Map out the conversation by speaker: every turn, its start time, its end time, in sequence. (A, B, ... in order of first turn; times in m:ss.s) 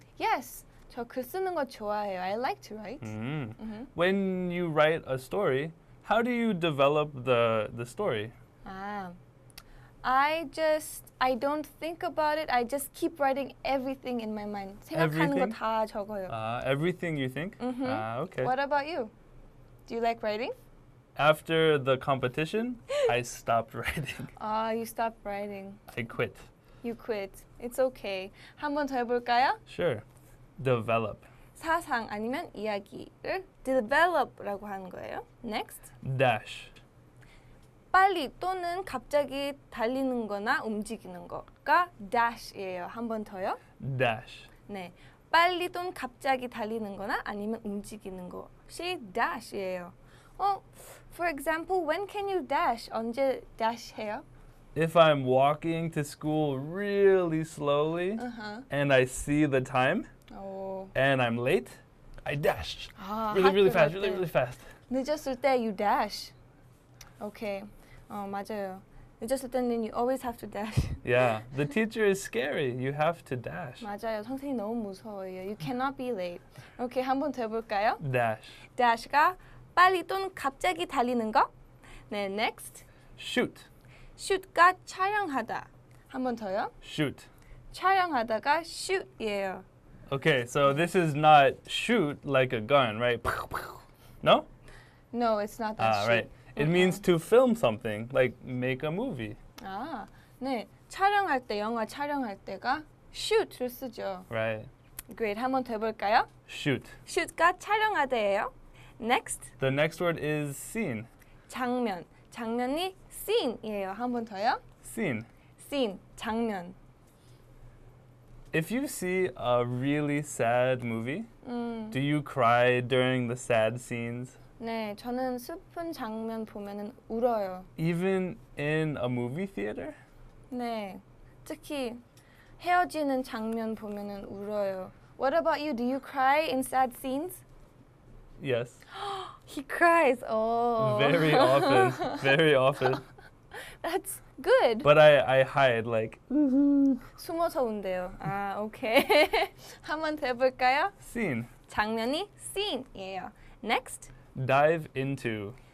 0:00.2-0:03.9 A
0:03.0-0:08.3 B
0:08.6-0:09.2 A
0:10.0-0:16.3 A
0:14.9-0:15.6 B
0:16.3-0:18.5 B
0:17.6-0:19.1 A
0:19.9-0:20.5 A
0:21.2-0:24.3 B
0:24.4-0:25.8 A
0:25.9-0:26.5 B
0:26.8-0:29.6 A
0:29.7-0:30.0 B
0:30.6-0:31.3 B
0:31.6-0:35.8 A
0:36.0-0:36.8 B
0:37.9-0:43.6 A
0:43.8-0:44.5 B
0:44.7-0:54.2 A
0:54.7-1:00.1 B
0:58.2-0:58.6 A
1:00.3-1:00.9 A
1:00.9-1:04.6 B
1:03.0-1:04.2 A
1:04.9-1:06.3 A
1:07.2-1:11.0 A
1:11.0-1:13.9 B
1:13.8-1:18.0 A
1:18.0-1:18.6 B
1:18.7-1:21.5 A
1:22.1-1:22.8 A
1:23.2-1:23.7 B
1:24.2-1:26.7 A
1:26.8-1:27.3 B
1:27.7-1:29.6 A
1:30.1-1:34.5 B
1:35.1-1:37.0 A
1:35.8-1:39.4 B
1:39.6-1:44.3 A
1:44.3-1:44.7 B
1:45.1-1:46.3 A
1:46.5-1:47.0 B
1:47.0-1:49.5 A
1:49.6-1:51.1 B
1:51.5-1:54.6 A
1:54.8-1:55.3 B
1:55.6-1:56.8 A
1:58.5-2:01.3 B
2:01.4-2:02.0 A
2:01.9-2:04.4 B
2:04.6-2:07.7 A
2:07.8-2:10.0 B
2:10.5-2:12.0 A
2:12.6-2:17.4 A
2:18.4-2:18.8 B
2:18.9-2:22.2 A
2:20.8-2:23.0 B
2:23.5-2:24.9 A
2:24.8-2:27.0 B
2:27.2-2:30.9 A
2:31.0-2:31.5 B
2:31.7-2:34.1 A
2:34.3-2:35.6 B